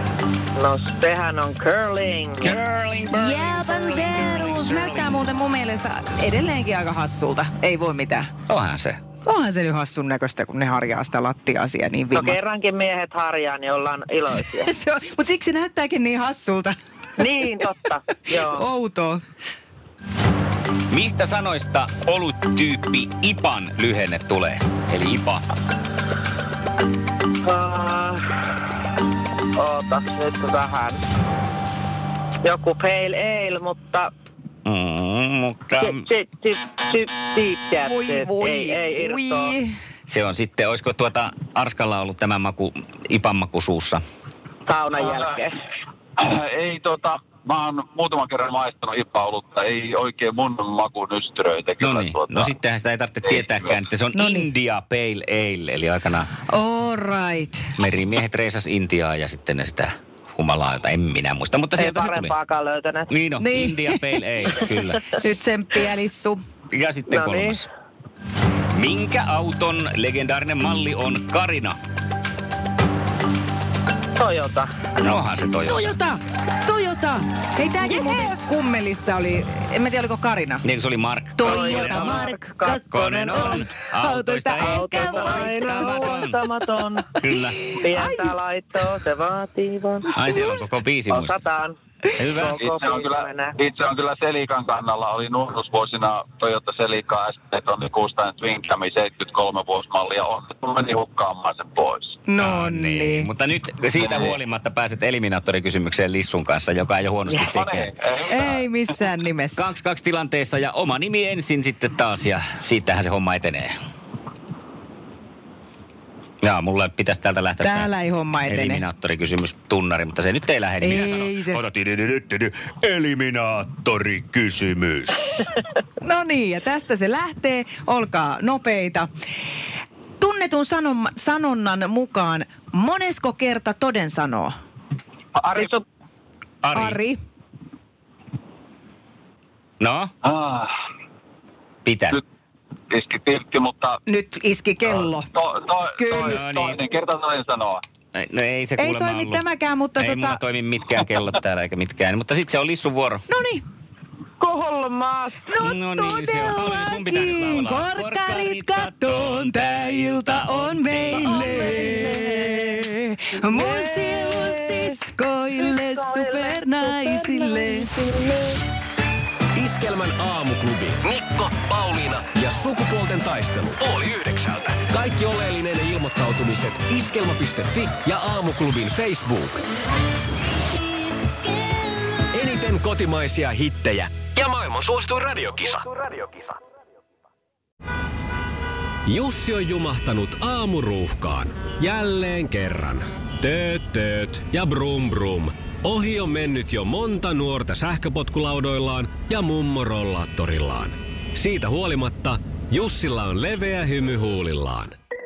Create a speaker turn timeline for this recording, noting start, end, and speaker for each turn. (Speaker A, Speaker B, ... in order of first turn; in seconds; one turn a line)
Speaker A: 0.6-2.6
Speaker B: 2.4-5.2
Speaker C: 3.1-8.3
Speaker B: 8.5-9.0
Speaker C: 9.2-12.4
Speaker A: 12.1-14.7
Speaker C: 14.4-16.8
Speaker A: 17.2-18.7
Speaker C: 18.2-19.2
Speaker B: 20.9-25.4
Speaker A: 27.4-28.2
Speaker A: 29.6-31.0
Speaker A: 32.4-34.1
Speaker B: 34.6-36.0
Speaker A: 35.8-39.6
Speaker C: 37.9-39.7
Speaker B: 40.1-44.0
Speaker A: 44.7-45.5
Speaker D: 45.0-45.3
Speaker D: 46.2-52.5
Speaker B: 51.8-56.3
Speaker D: 53.2-53.8
Speaker C: 54.1-54.5
Speaker C: 56.5-57.7
Speaker B: 57.8-62.4
Speaker A: 61.8-63.1
Speaker B: 63.1-65.1
Speaker C: 63.4-64.1
Speaker C: 65.1-66.4
Speaker B: 66.7-67.7
Speaker A: 67.1-67.6
Speaker B: 68.7-71.8
Speaker A: 74.2-74.7
Speaker B: 75.0-75.9
Speaker C: 75.7-80.6
Speaker A: 77.8-78.4
Speaker B: 80.6-82.3
Speaker C: 81.4-86.3
Speaker A: 81.4-83.7
Speaker B: 82.9-86.4
Speaker A: 84.6-87.1
Speaker B: 87.2-87.8
Speaker C: 87.7-88.3
Speaker A: 87.8-90.2
Speaker B: 90.2-91.4
Speaker C: 90.2-90.6
Speaker A: 91.1-93.6
Speaker B: 92.2-92.6
Speaker D: 92.5-102.2
Speaker C: 102.3-103.3
Speaker B: 102.4-107.9
Speaker D: 103.9-104.4
Speaker D: 107.3-108.5
Speaker C: 108.3-109.6
Speaker B: 109.6-113.7
Speaker B: 116.4-117.9
Speaker C: 117.6-118.8
Speaker B: 118.5-125.3
Speaker C: 120.8-121.6
Speaker C: 126.0-129.1
Speaker C: 130.2-134.5
Speaker D: 135.4-135.8
Speaker A: 135.5-135.8
Speaker B: 136.6-137.0
Speaker C: 136.7-137.2
Speaker B: 139.8-140.1
Speaker D: 140.2-140.7
Speaker B: 141.8-142.2
Speaker D: 142.9-144.0
Speaker C: 144.1-145.3
Speaker D: 144.8-147.8
Speaker C: 146.0-146.4
Speaker B: 146.2-146.8
Speaker B: 148.1-149.4
Speaker C: 148.8-150.4
Speaker B: 150.0-153.3
Speaker C: 153.3-153.6
Speaker A: 154.4-155.5
Speaker C: 155.5-167.9
Speaker B: 155.6-162.7
Speaker A: 161.4-162.0
Speaker A: 163.5-165.0
Speaker A: 165.6-168.6
Speaker E: 169.5-179.6
Speaker E: 182.3-186.5
Speaker E: 189.1-204.9